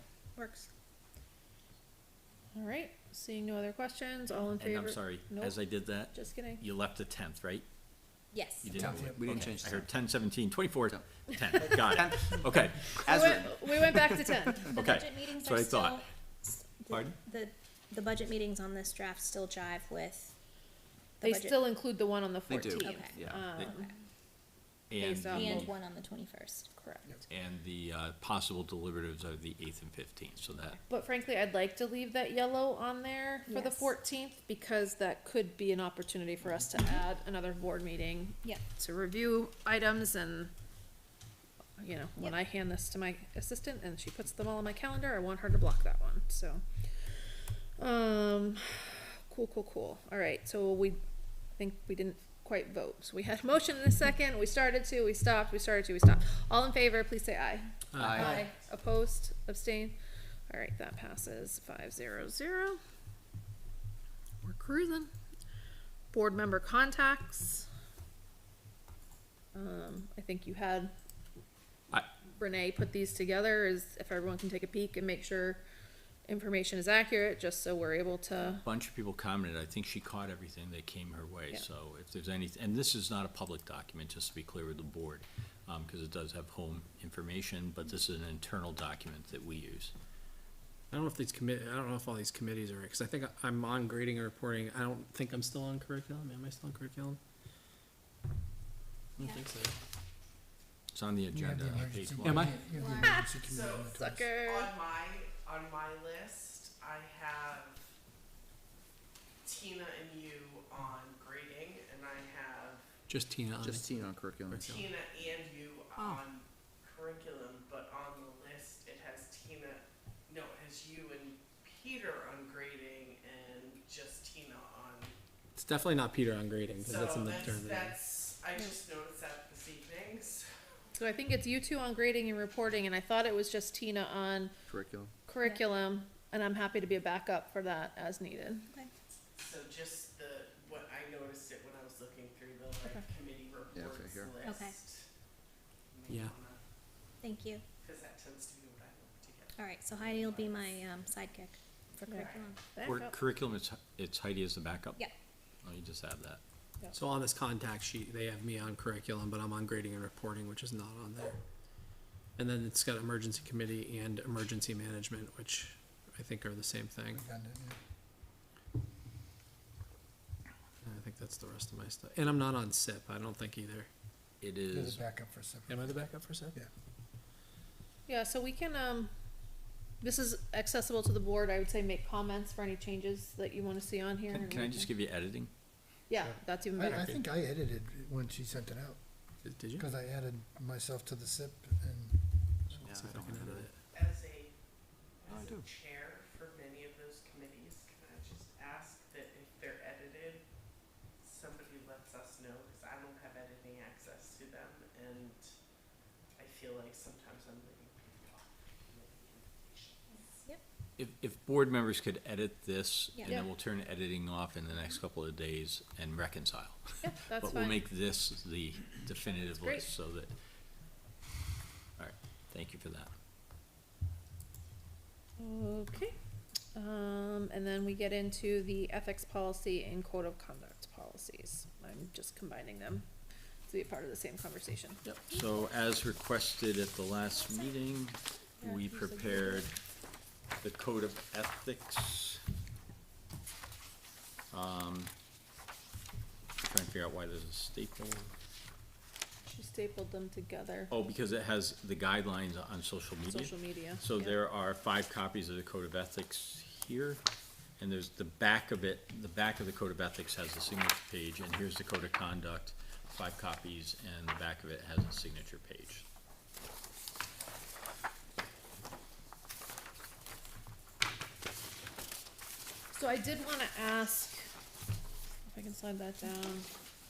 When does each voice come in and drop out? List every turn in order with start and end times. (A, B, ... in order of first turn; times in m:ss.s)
0:00.4-0:00.6 A
0:02.5-0:05.6 A
0:04.6-0:07.6 B
0:06.1-0:06.6 A
0:08.3-0:08.7 C
0:08.6-0:13.4 B
0:08.7-0:09.3 D
0:08.8-0:09.9 E
0:11.8-0:12.4 E
0:13.0-0:14.7 A
0:13.0-0:14.5 E
0:14.7-0:20.3 C
0:14.7-0:16.0 B
0:16.9-0:17.1 B
0:21.2-0:21.6 C
0:21.2-0:23.9 A
0:22.5-0:23.4 E
0:22.8-0:23.9 C
0:24.9-0:25.7 B
0:25.0-0:25.6 A
0:25.3-0:26.7 C
0:26.8-0:27.2 A
0:27.3-0:30.8 B
0:30.9-0:40.5 A
0:33.4-0:33.9 C
0:41.8-0:46.6 A
0:47.8-0:51.0 A
0:51.6-1:00.0 A
0:57.9-0:58.4 F
0:58.0-0:58.5 E
1:00.5-1:02.8 A
1:04.4-1:05.1 A
1:06.1-1:07.7 A
1:09.5-1:10.9 A
1:12.2-1:15.6 A
1:16.3-1:18.6 A
1:18.6-1:29.9 B
1:30.9-1:37.2 F
1:39.2-1:39.4 C
1:39.2-1:39.8 F
1:40.9-1:42.5 B
1:41.3-1:44.3 D
1:42.2-1:42.6 F
1:42.6-1:43.2 C
1:43.0-1:44.8 A
1:43.4-1:47.8 G
1:49.4-1:52.9 G
1:53.1-1:54.9 F
1:53.6-1:54.7 E
1:54.7-2:05.2 G
2:05.6-2:08.0 F
2:06.8-2:10.5 G
2:11.0-2:14.5 A
2:14.7-2:15.1 E
2:15.2-2:18.7 A
2:19.3-2:25.1 G
2:23.7-2:24.3 E
2:24.4-2:24.8 C
2:25.9-2:26.6 G
2:26.1-2:26.3 F
2:27.2-2:27.6 C
2:27.8-2:30.9 G
2:29.6-2:32.6 C
2:32.0-2:33.2 A
2:32.8-2:35.0 B
2:35.6-2:36.4 B
2:36.9-2:41.4 F
2:42.4-2:47.2 F
2:47.1-2:47.8 D
2:50.8-2:53.9 F
2:54.4-2:55.0 B
2:54.7-2:56.0 D
2:55.7-2:56.6 F
2:58.1-2:59.1 A
3:00.0-3:04.9 A
3:04.3-3:05.5 B
3:06.1-3:07.2 A
3:06.2-3:09.0 D
3:09.4-3:09.8 F
3:09.8-3:12.9 D
3:12.7-3:13.8 F
3:12.8-3:13.7 E
3:13.9-3:14.5 G
3:15.2-3:20.4 G
3:15.3-3:15.7 E
3:21.2-3:25.5 G
3:26.4-3:30.4 G
3:31.0-3:40.3 B
3:37.0-3:37.8 A
3:39.3-3:39.9 A
3:42.0-3:43.1 B
3:45.4-3:46.1 A
3:46.7-3:53.0 A
3:53.7-3:55.0 A
3:55.0-3:59.7 B
3:57.3-3:57.7 C
3:58.6-3:59.7 A
4:00.6-4:02.4 B
4:04.5-4:05.1 B
4:06.6-4:08.3 B
4:09.4-4:10.9 A
4:10.9-4:17.2 B
4:13.3-4:14.4 A
4:17.8-4:26.0 B
4:32.9-4:34.5 A
4:35.5-4:36.7 A